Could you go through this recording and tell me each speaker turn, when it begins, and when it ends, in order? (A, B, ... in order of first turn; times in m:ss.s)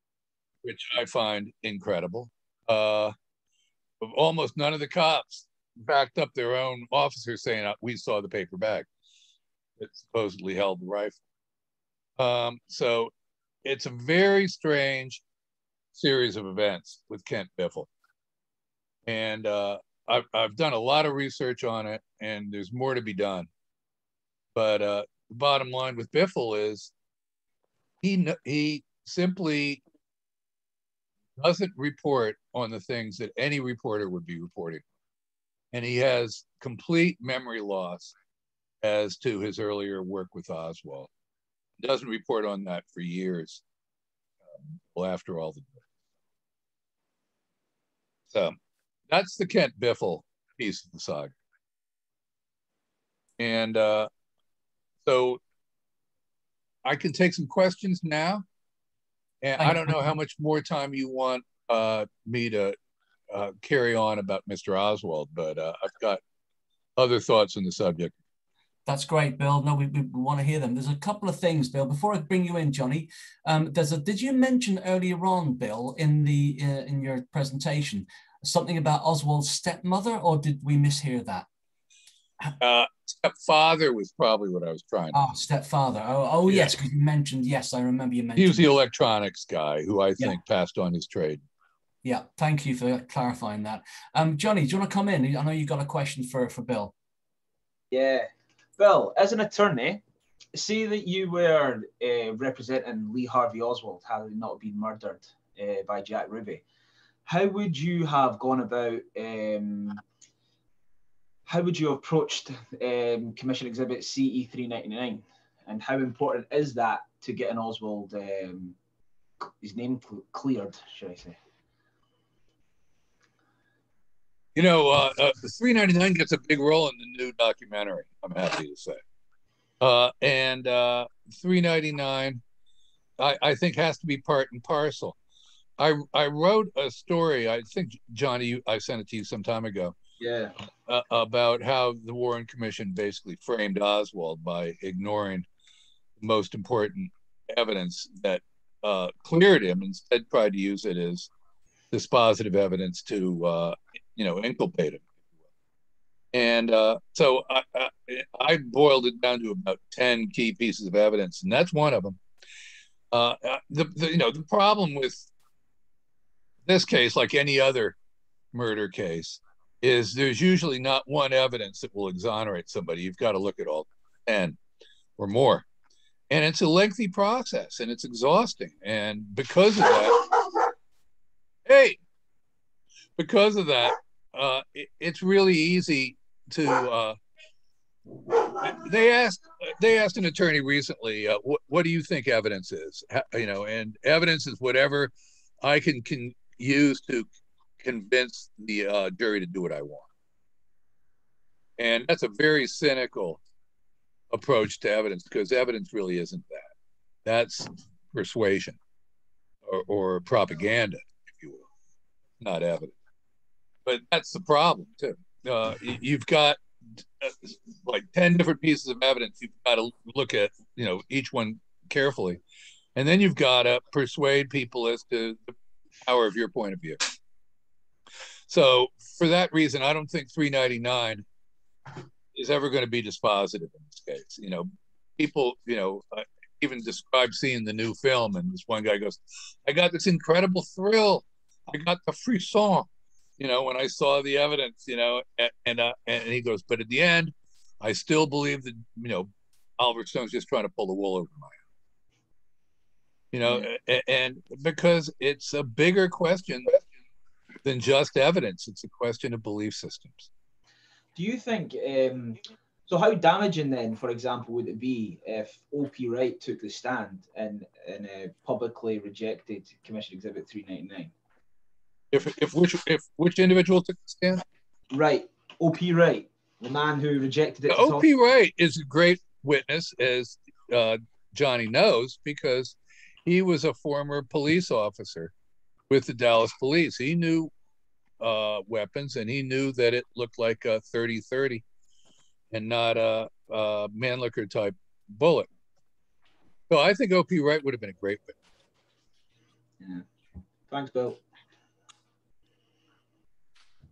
0:00.6-0:03.1 A
0:04.0-0:08.9 A
0:09.8-0:11.2 A
0:12.2-0:13.1 A
0:13.6-0:15.2 A
0:15.9-0:17.9 A
0:19.0-0:23.5 A
0:24.5-0:26.9 A
0:28.0-0:29.8 A
0:31.4-0:34.8 A
0:35.7-0:38.1 A
0:38.8-0:41.1 A
0:41.8-0:43.6 A
0:44.6-0:45.8 A
0:48.3-0:48.6 A
0:49.1-0:51.4 A
0:53.4-0:54.1 A
0:55.0-0:55.4 A
0:56.8-0:58.4 A
0:59.4-1:02.8 A
0:59.6-1:00.0 B
1:03.3-1:06.2 A
1:07.0-1:08.1 A
1:08.8-1:21.5 B
1:22.6-1:25.2 A
1:25.1-1:28.7 B
1:26.5-1:26.7 A
1:28.4-1:31.4 A
1:32.0-1:36.9 B
1:37.9-1:40.0 C
1:40.5-1:46.6 C
1:47.2-1:50.0 C
1:51.5-1:58.7 C
1:59.4-2:01.4 C
2:04.5-2:09.0 A
2:09.8-2:12.4 A
2:13.2-2:15.2 A
2:15.8-2:19.9 A
2:20.2-2:20.5 C
2:20.8-2:25.4 A
2:26.2-2:31.3 A
2:31.9-2:35.1 A
2:36.3-2:42.2 A
2:43.1-2:45.3 A
2:46.6-2:48.0 A
2:48.5-2:54.6 A
2:55.2-2:55.6 A
2:56.3-3:00.7 A
3:01.6-3:02.0 A
3:03.2-3:07.2 A
3:08.2-3:17.3 A
3:17.8-3:20.1 A
3:21.8-3:23.4 A
3:24.3-3:26.7 A
3:27.2-3:28.8 A
3:29.6-3:31.6 A
3:32.4-3:32.9 A
3:33.8-3:42.4 A
3:42.9-3:47.0 A
3:48.5-3:51.2 A
3:52.3-4:11.6 A
4:13.3-4:16.8 A
4:17.6-4:20.3 A
4:21.1-4:31.1 C
4:32.1-4:34.4 A
4:34.9-4:38.0 C
4:37.7-4:45.3 A
4:45.9-4:47.5 A
4:48.2-4:51.6 A
4:52.5-4:55.5 A
4:56.7-4:58.4 A
5:00.7-5:01.2 C